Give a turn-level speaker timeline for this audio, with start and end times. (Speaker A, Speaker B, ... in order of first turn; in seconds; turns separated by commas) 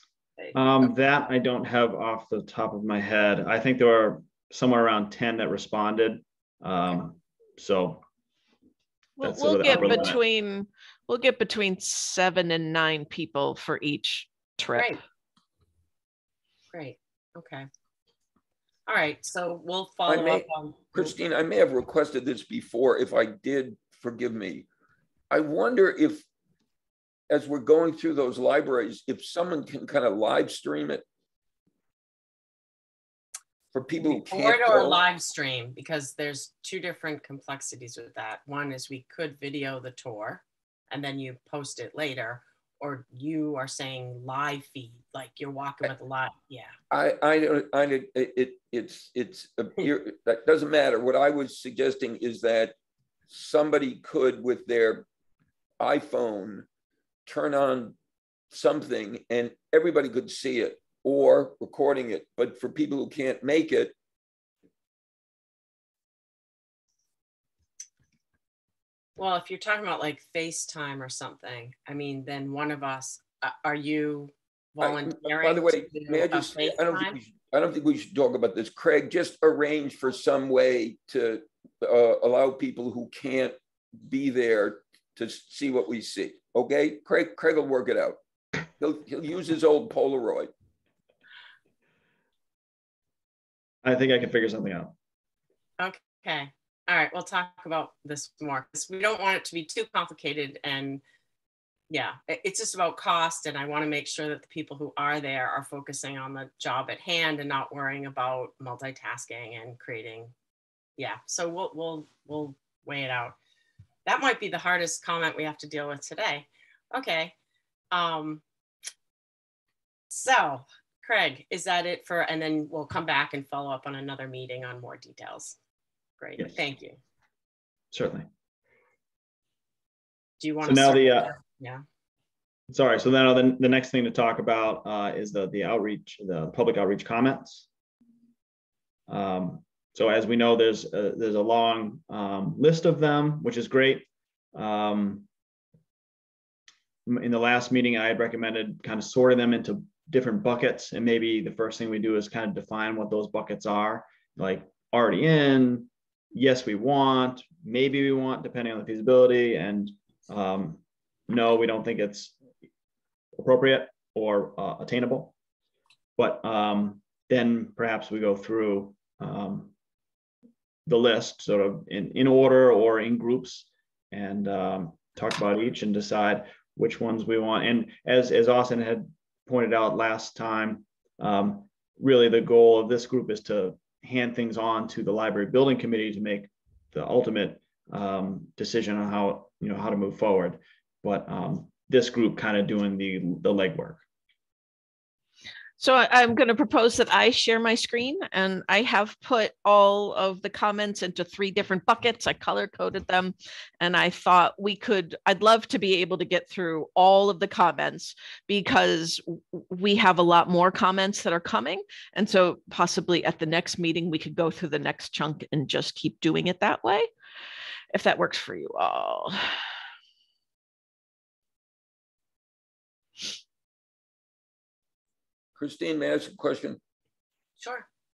Speaker A: 0.5-8.0, Speaker B: 9.2-14.9, Speaker A: 9.2-10.2, Speaker C: 16.7-17.7, Speaker C: 18.9-21.1, Speaker D: 20.1-24.7, Speaker D: 25.3-26.3, Speaker D: 27.3-31.0, Speaker D: 33.7-35.0, Speaker C: 34.0-46.7, Speaker D: 46.9-52.7, Speaker D: 53.3-55.1, Speaker D: 55.8-56.7, Speaker D: 57.3-58.0, Speaker D: 58.5-63.9, Speaker C: 69.2-77.2, Speaker D: 74.8-88.2, Speaker D: 88.8-90.5, Speaker A: 93.8-95.0, Speaker C: 95.8-101.0, Speaker C: 101.9-110.3, Speaker C: 111.0-113.4, Speaker C: 114.1-117.3, Speaker C: 117.9-118.4, Speaker C: 120.1-125.6, Speaker C: 126.2-127.0, Speaker A: 127.9-128.3, Speaker C: 130.4-131.8, Speaker A: 130.6-131.3, Speaker A: 132.7-137.7, Speaker A: 139.1-145.3, Speaker A: 147.1-162.3, Speaker A: 163.4-165.3, Speaker A: 166.2-169.7, Speaker A: 170.9-194.0, Speaker B: 195.8-217.1, Speaker B: 217.9-219.5, Speaker D: 225.6-226.8, Speaker C: 227.6-227.9